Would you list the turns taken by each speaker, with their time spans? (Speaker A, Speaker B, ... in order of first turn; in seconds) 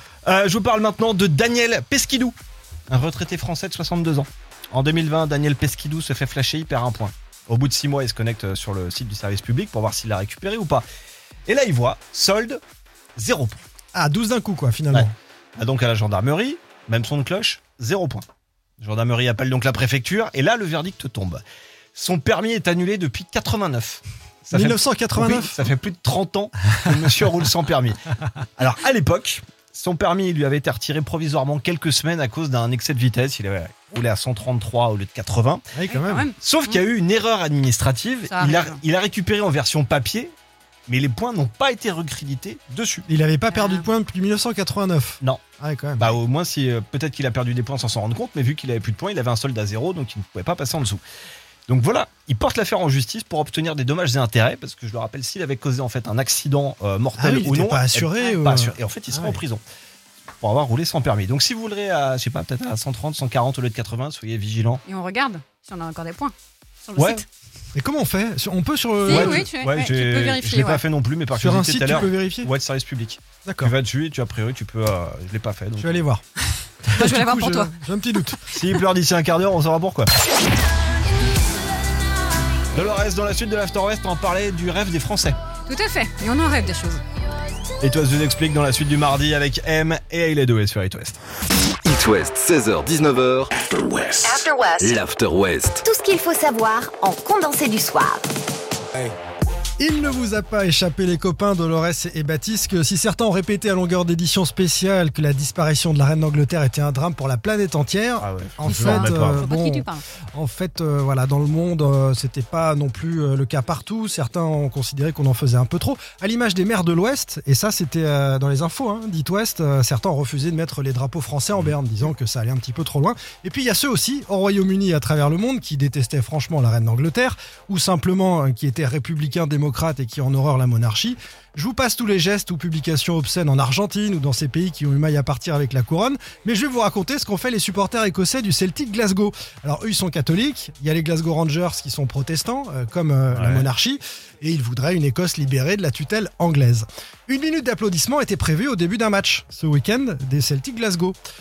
Speaker A: 0.2-2.4, 2.9-10.8, 11.5-12.6, 13.2-13.6, 14.9-18.2, 18.8-21.4, 21.9-28.0, 28.6-35.6, 36.4-40.3, 40.9-43.1, 46.0-51.0, 51.7-59.6, 60.4-64.8, 67.0-67.2, 69.1-76.0, 78.5-80.1, 82.7-85.4, 87.8-91.2, 108.2-109.5, 143.3-143.7
Speaker B: 13.9-15.1, 24.5-25.6, 35.7-36.3, 43.1-46.2, 57.1-59.4, 67.7-69.5, 71.3-72.5, 73.4-73.7, 75.8-76.2, 76.9-78.4, 99.8-151.2
Speaker C: 35.9-36.8, 38.3-38.8, 43.5-43.9, 64.8-67.2, 69.0-70.8, 77.0-77.7, 85.7-87.0, 108.7-110.0
Speaker D: 91.8-95.8
Speaker E: 94.2-95.0, 95.8-98.2